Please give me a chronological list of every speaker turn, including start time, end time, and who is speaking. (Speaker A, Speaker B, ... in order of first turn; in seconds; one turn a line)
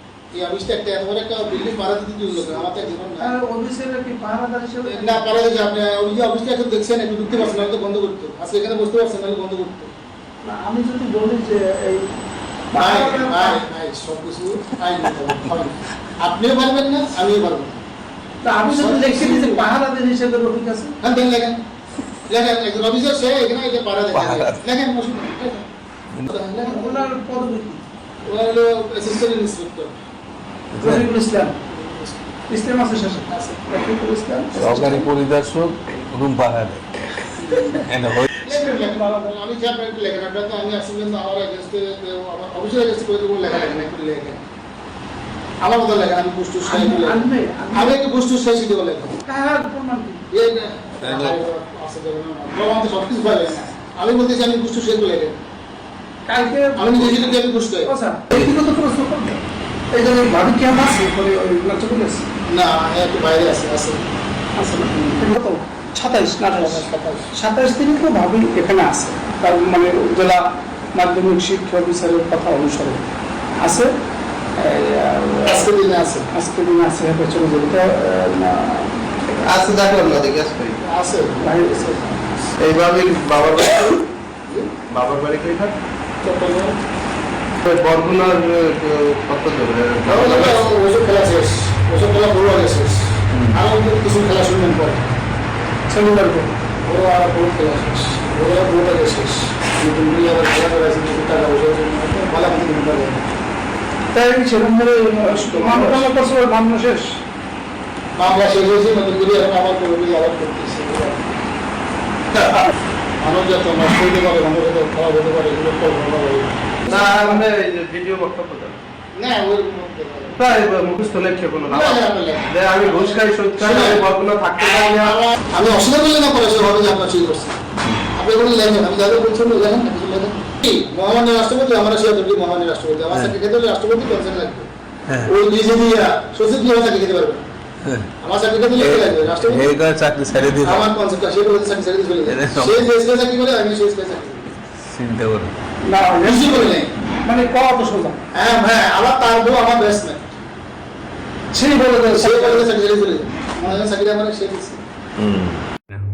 Speaker A: 0.3-3.3
Speaker B: 3.2-5.3
Speaker A: 4.8-9.9
Speaker B: 10.4-12.2
Speaker B: 12.7-13.6
Speaker A: 12.7-17.8
Speaker B: 18.4-20.9
Speaker A: 18.6-19.7
Speaker A: 21.0-21.6
Speaker A: 22.3-25.7
Speaker C: 24.1-24.6
Speaker A: 26.2-27.1
Speaker B: 26.6-27.9
Speaker A: 28.3-30.0
Speaker C: 30.8-31.1
Speaker B: 30.8-31.6
Speaker A: 31.7-32.3
Speaker B: 32.5-35.1
Speaker C: 34.5-38.3
Speaker B: 37.4-37.8
Speaker A: 38.4-44.4
Speaker B: 38.5-39.3
Speaker A: 45.6-49.1
Speaker B: 46.6-48.0
Speaker B: 49.2-50.2
Speaker A: 50.3-55.4
Speaker C: 51.0-51.4
Speaker B: 56.3-59.4
Speaker A: 56.8-57.9
Speaker B: 59.9-62.3
Speaker A: 62.5-64.1
Speaker B: 64.6-70.4
Speaker A: 66.5-67.3
Speaker B: 70.9-73.0
Speaker B: 73.6-73.9
Speaker B: 74.6-75.7
Speaker A: 75.5-76.3
Speaker B: 76.3-79.1
Speaker D: 79.4-80.8
Speaker A: 80.8-82.1
Speaker B: 81.4-82.3
Speaker D: 82.6-84.0
Speaker D: 84.9-85.8
Speaker A: 86.2-86.8
Speaker D: 87.6-90.7
Speaker A: 90.0-95.2
Speaker B: 95.9-96.5
Speaker A: 96.8-103.3
Speaker B: 104.1-107.2
Speaker A: 105.3-106.1
Speaker A: 108.2-111.4
Speaker A: 113.2-117.1
Speaker B: 116.9-117.4
Speaker D: 116.9-118.8
Speaker A: 119.1-120.4
Speaker D: 120.4-125.2
Speaker A: 121.7-127.6
Speaker A: 128.1-134.7
Speaker A: 135.2-137.4
Speaker A: 138.2-139.8
Speaker C: 138.7-140.9
Speaker A: 140.5-144.5
Speaker C: 142.3-142.9
Speaker C: 144.8-145.5
Speaker B: 145.8-148.2
Speaker A: 146.2-146.9
Speaker A: 148.3-150.4
Speaker B: 151.5-152.7
Speaker A: 152.2-154.8